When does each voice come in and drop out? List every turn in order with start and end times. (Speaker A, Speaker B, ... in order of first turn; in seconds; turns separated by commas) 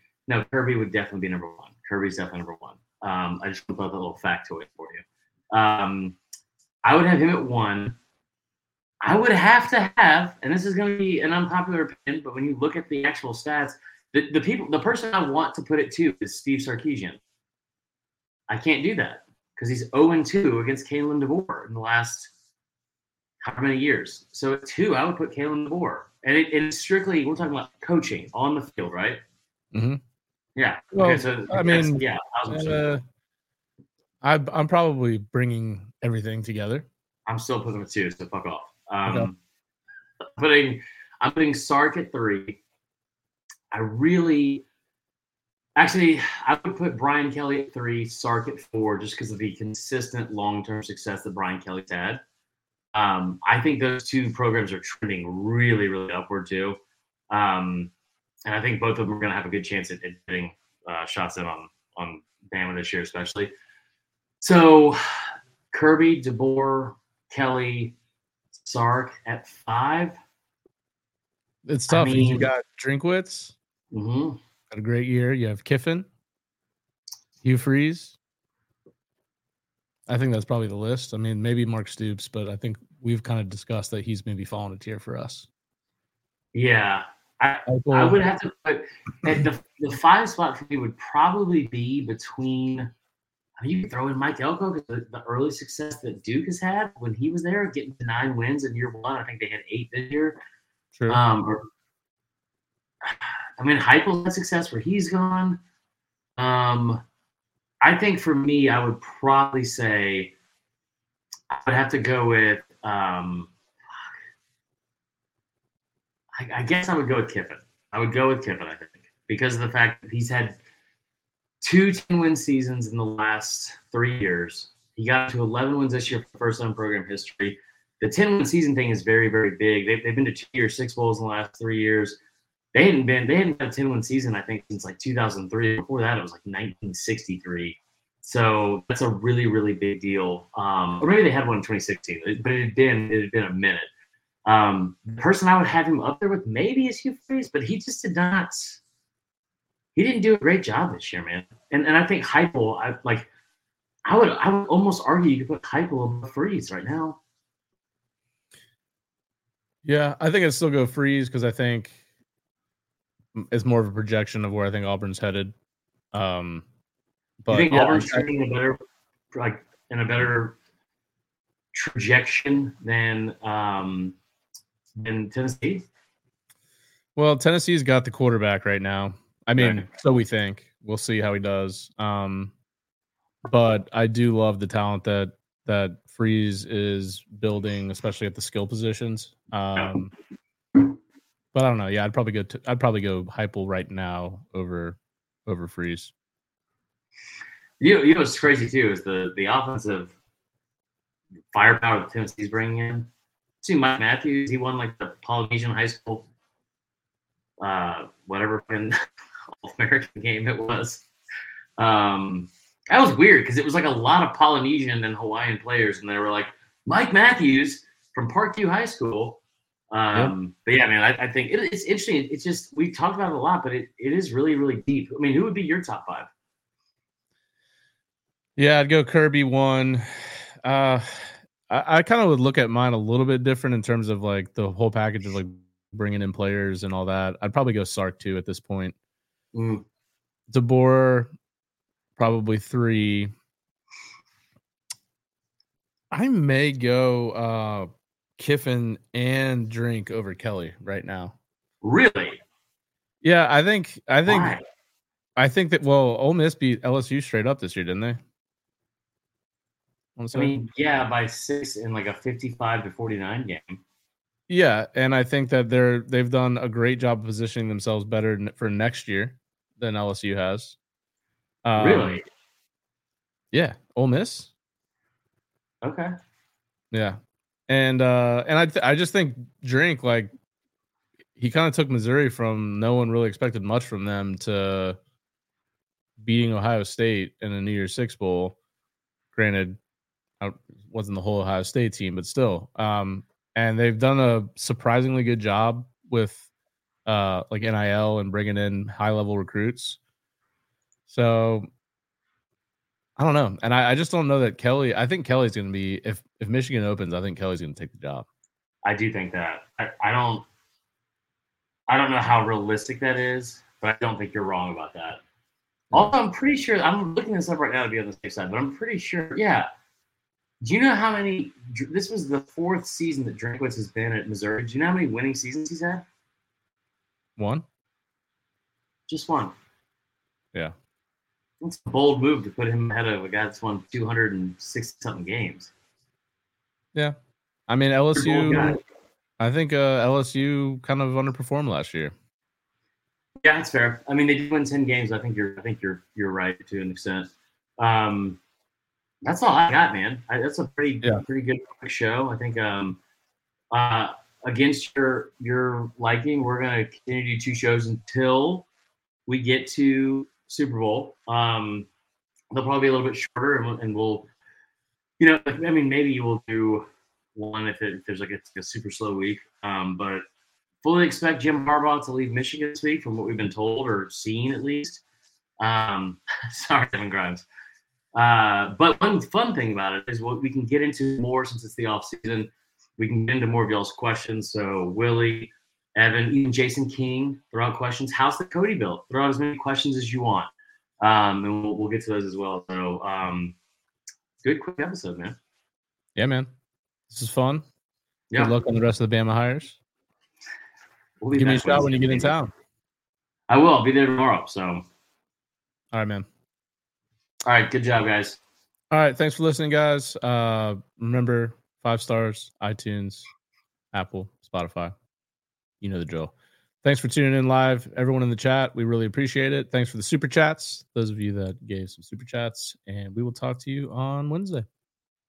Speaker A: 0.3-6.2, Speaker A: 6.8-8.0, Speaker A: 9.0-17.2, Speaker A: 18.5-22.3, Speaker A: 23.4-29.2, Speaker B: 29.7-30.0, Speaker A: 30.6-32.8, Speaker B: 30.9-33.0, Speaker B: 34.2-36.9, Speaker A: 37.3-39.4, Speaker A: 40.4-42.6, Speaker A: 43.7-44.6, Speaker A: 45.8-52.2, Speaker A: 52.9-56.8, Speaker A: 57.3-57.9, Speaker A: 58.5-63.5, Speaker A: 64.4-68.0, Speaker A: 68.5-70.2, Speaker B: 71.7-73.5, Speaker A: 71.9-72.5, Speaker A: 73.9-74.4, Speaker B: 74.7-76.1, Speaker B: 77.4-78.2, Speaker B: 80.1-85.5, Speaker A: 86.5-92.9, Speaker B: 87.7-88.2, Speaker A: 93.6-100.4, Speaker A: 101.1-101.6, Speaker A: 103.0-105.6, Speaker A: 106.4-107.0, Speaker A: 107.8-110.3, Speaker A: 111.5-114.1, Speaker A: 116.3-120.6, Speaker A: 121.6-132.2, Speaker A: 132.7-143.9, Speaker A: 144.4-148.8, Speaker A: 150.0-153.3, Speaker A: 154.1-157.2, Speaker B: 159.8-162.0, Speaker B: 163.3-165.5, Speaker B: 166.1-166.7, Speaker B: 167.4-168.3, Speaker A: 167.5-168.8, Speaker A: 169.3-170.6, Speaker A: 171.7-174.2, Speaker A: 175.0-175.8, Speaker B: 177.2-182.5, Speaker A: 179.6-179.9, Speaker B: 183.5-190.1, Speaker B: 191.5-196.1, Speaker A: 197.8-200.1, Speaker A: 201.5-203.1, Speaker A: 203.6-206.3, Speaker A: 207.6-208.9, Speaker A: 209.5-211.1, Speaker A: 211.8-219.4, Speaker A: 219.9-226.3, Speaker B: 228.6-230.1, Speaker B: 230.6-238.9, Speaker A: 239.5-239.8, Speaker B: 240.5-241.3, Speaker B: 242.2-243.3, Speaker B: 246.1-251.3, Speaker A: 251.8-252.4, Speaker B: 253.2-254.6, Speaker A: 254.3-254.6, Speaker B: 255.4-258.2, Speaker B: 260.2-260.7, Speaker A: 260.3-263.8, Speaker B: 264.5-270.8, Speaker B: 271.6-272.2, Speaker A: 271.8-272.2, Speaker B: 273.5-274.5, Speaker A: 275.8-276.1, Speaker B: 276.9-277.2, Speaker B: 277.7-280.3, Speaker B: 281.4-285.0, Speaker B: 286.2-288.6, Speaker B: 289.3-289.8, Speaker B: 290.4-296.4, Speaker B: 297.1-300.0, Speaker B: 301.1-301.7, Speaker B: 303.2-308.3, Speaker A: 308.8-310.5, Speaker A: 311.9-315.2, Speaker A: 315.9-319.7, Speaker A: 320.6-326.1, Speaker B: 327.4-327.6, Speaker A: 329.1-329.5, Speaker A: 331.6-335.7, Speaker B: 337.7-338.8, Speaker A: 338.2-338.8, Speaker B: 339.4-342.1, Speaker A: 343.4-348.4, Speaker A: 349.2-353.0, Speaker A: 353.7-358.7, Speaker A: 359.3-361.9, Speaker A: 362.5-364.3, Speaker A: 365.2-370.2, Speaker A: 370.8-375.0, Speaker A: 375.6-377.4, Speaker A: 378.1-393.6, Speaker A: 394.4-395.4, Speaker B: 396.2-396.5, Speaker B: 397.1-397.6, Speaker B: 398.4-399.8, Speaker A: 401.2-402.3, Speaker B: 401.3-402.5, Speaker A: 403.5-404.9, Speaker B: 405.9-406.3, Speaker A: 407.4-408.4, Speaker B: 408.9-413.3, Speaker B: 413.9-414.9, Speaker B: 415.8-416.3, Speaker B: 416.8-424.7